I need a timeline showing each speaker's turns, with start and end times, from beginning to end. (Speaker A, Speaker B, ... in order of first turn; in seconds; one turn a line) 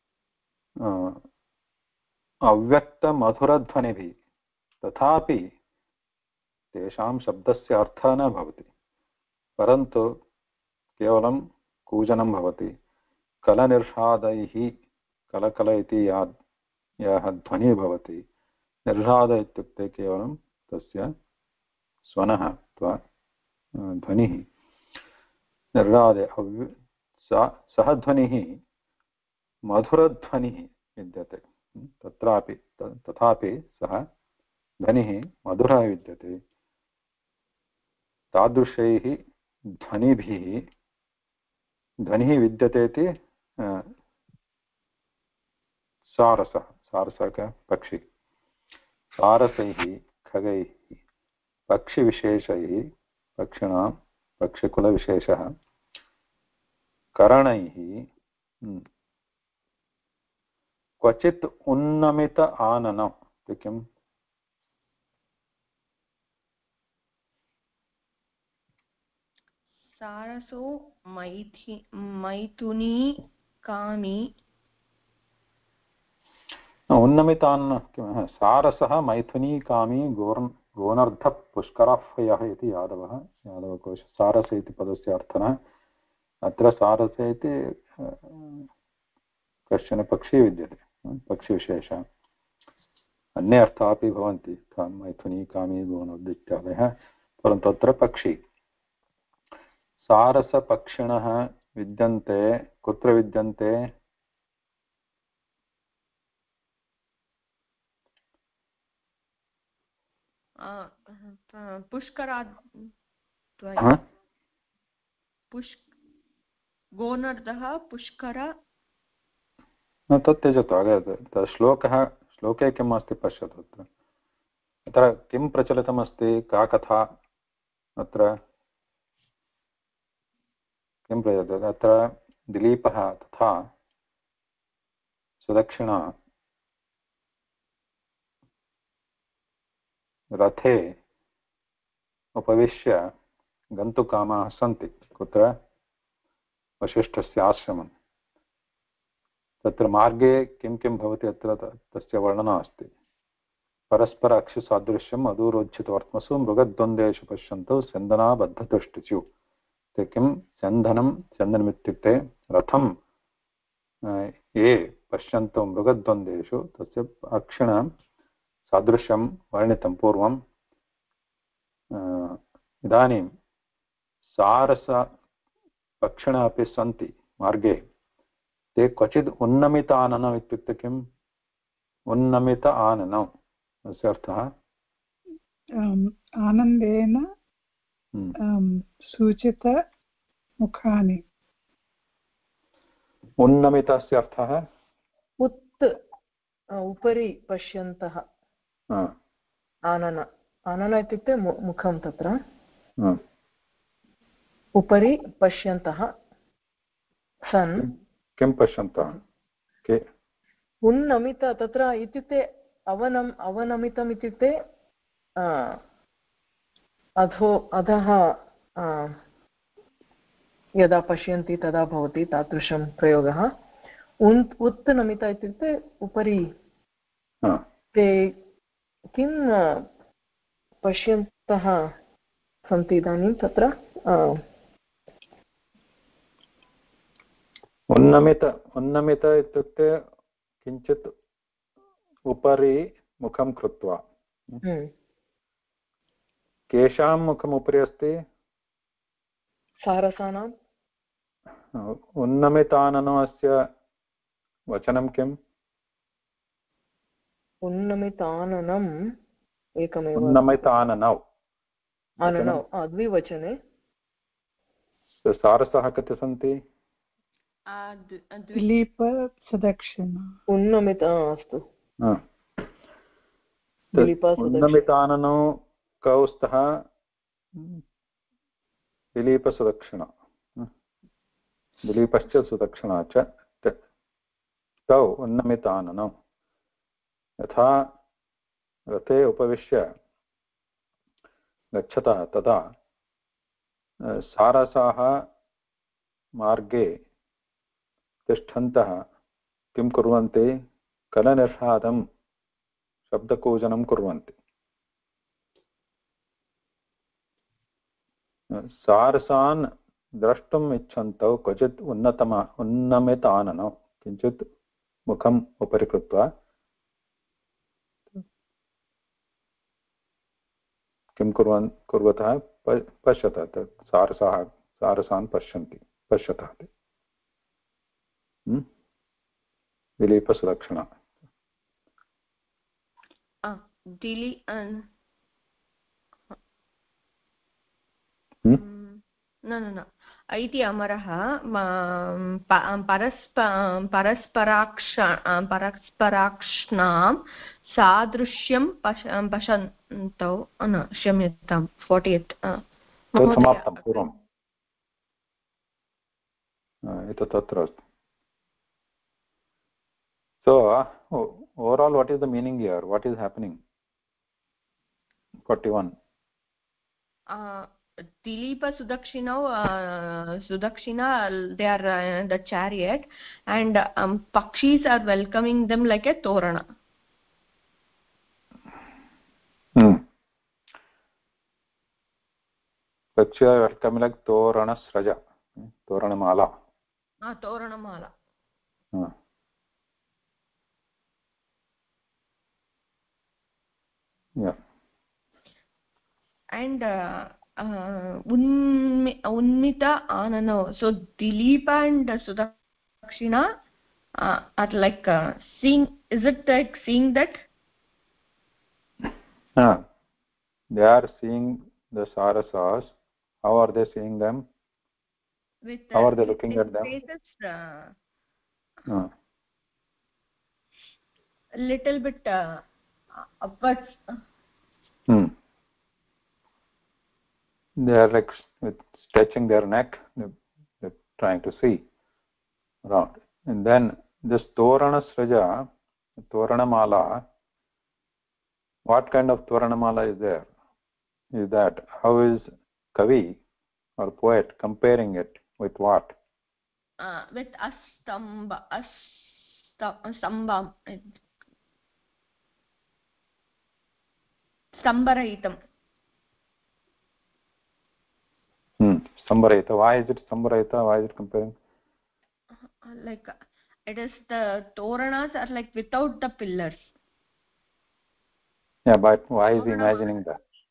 Speaker A: 0.8-1.2
Speaker A: 2.5-4.1
Speaker A: 4.8-5.5
Speaker A: 6.7-8.7
Speaker A: 9.6-10.0
Speaker A: 11.0-12.7
Speaker A: 13.4-14.7
Speaker A: 15.3-16.3
Speaker A: 17.0-18.2
Speaker A: 18.9-21.1
Speaker A: 22.0-23.0
Speaker A: 23.8-24.5
Speaker A: 25.7-28.6
Speaker A: 29.7-34.0
Speaker A: 34.8-36.4
Speaker A: 38.3-39.1
Speaker A: 39.7-40.6
Speaker A: 42.0-43.1
Speaker A: 46.1-48.0
Speaker A: 49.2-51.0
Speaker A: 51.7-52.8
Speaker A: 53.4-53.9
Speaker A: 54.4-55.5
Speaker A: 57.2-58.1
Speaker A: 61.0-63.8
Speaker B: 69.9-74.2
Speaker A: 76.9-85.6
Speaker A: 86.4-88.6
Speaker A: 89.7-92.0
Speaker A: 93.4-98.4
Speaker A: 100.0-103.7
Speaker B: 110.6-112.9
Speaker B: 113.6-114.0
Speaker B: 115.5-115.8
Speaker B: 117.0-118.5
Speaker A: 120.1-123.9
Speaker A: 124.9-127.1
Speaker A: 128.0-128.3
Speaker A: 131.1-133.7
Speaker A: 135.4-136.1
Speaker A: 140.3-140.9
Speaker A: 142.3-143.0
Speaker A: 143.7-145.5
Speaker A: 146.8-147.9
Speaker A: 149.6-152.9
Speaker A: 153.9-159.3
Speaker A: 159.9-162.9
Speaker A: 164.1-167.9
Speaker A: 168.7-170.4
Speaker A: 171.9-173.3
Speaker A: 174.3-175.1
Speaker A: 176.0-177.8
Speaker A: 178.8-181.0
Speaker A: 182.1-183.3
Speaker A: 183.8-184.5
Speaker C: 185.8-187.2
Speaker C: 188.5-189.8
Speaker C: 190.6-191.2
Speaker A: 193.4-194.6
Speaker D: 195.4-195.9
Speaker D: 196.7-198.2
Speaker D: 199.9-202.3
Speaker D: 204.8-206.1
Speaker D: 207.5-207.9
Speaker A: 207.8-209.2
Speaker D: 210.8-214.5
Speaker D: 215.4-215.8
Speaker D: 217.2-219.2
Speaker D: 220.8-223.5
Speaker D: 224.2-226.5
Speaker D: 227.9-228.3
Speaker D: 229.1-229.8
Speaker D: 230.8-231.9
Speaker D: 232.7-234.4
Speaker A: 237.9-239.9
Speaker A: 240.6-241.1
Speaker A: 242.3-244.6
Speaker D: 244.6-244.9
Speaker A: 246.7-248.2
Speaker D: 249.8-250.5
Speaker A: 251.7-253.6
Speaker A: 254.7-255.4
Speaker D: 257.6-258.9
Speaker D: 259.8-260.6
Speaker A: 260.1-261.2
Speaker D: 262.2-263.5
Speaker A: 262.2-262.6
Speaker A: 265.2-266.6
Speaker B: 267.7-268.7
Speaker C: 268.5-270.3
Speaker D: 270.5-271.6
Speaker D: 273.9-274.9
Speaker A: 273.9-276.8
Speaker A: 277.5-277.8
Speaker A: 279.1-280.7
Speaker A: 281.8-283.8
Speaker A: 284.9-286.1
Speaker A: 287.4-287.9
Speaker A: 288.9-289.9
Speaker A: 291.8-292.6
Speaker A: 294.1-295.1
Speaker A: 296.4-296.9
Speaker A: 298.3-299.0
Speaker A: 299.7-300.5
Speaker A: 301.1-302.0
Speaker A: 303.1-304.3
Speaker A: 308.5-314.5
Speaker A: 315.1-316.2
Speaker A: 321.1-326.7
Speaker A: 330.0-330.9
Speaker B: 333.4-334.8
Speaker B: 338.5-352.6
Speaker B: 353.1-354.1
Speaker A: 353.2-354.1
Speaker A: 356.8-357.8
Speaker A: 360.4-363.6
Speaker A: 365.4-365.9
Speaker B: 367.3-367.7
Speaker B: 368.2-376.6
Speaker A: 379.8-380.0
Speaker A: 383.1-386.5
Speaker B: 387.2-388.1
Speaker B: 396.6-402.5
Speaker B: 403.0-403.5
Speaker B: 404.2-407.4
Speaker A: 409.6-409.8
Speaker A: 410.7-414.4
Speaker B: 415.7-417.9
Speaker A: 415.9-416.9
Speaker B: 421.6-422.6
Speaker B: 423.4-424.2
Speaker A: 425.1-425.3
Speaker A: 427.8-431.8
Speaker A: 432.9-435.6
Speaker A: 436.2-437.1
Speaker A: 438.9-440.5
Speaker A: 441.4-443.3
Speaker A: 444.0-446.1
Speaker B: 447.0-451.2
Speaker B: 454.8-455.6
Speaker A: 458.8-461.5
Speaker B: 462.8-463.3
Speaker B: 463.9-466.9
Speaker A: 468.9-470.4
Speaker B: 469.6-470.1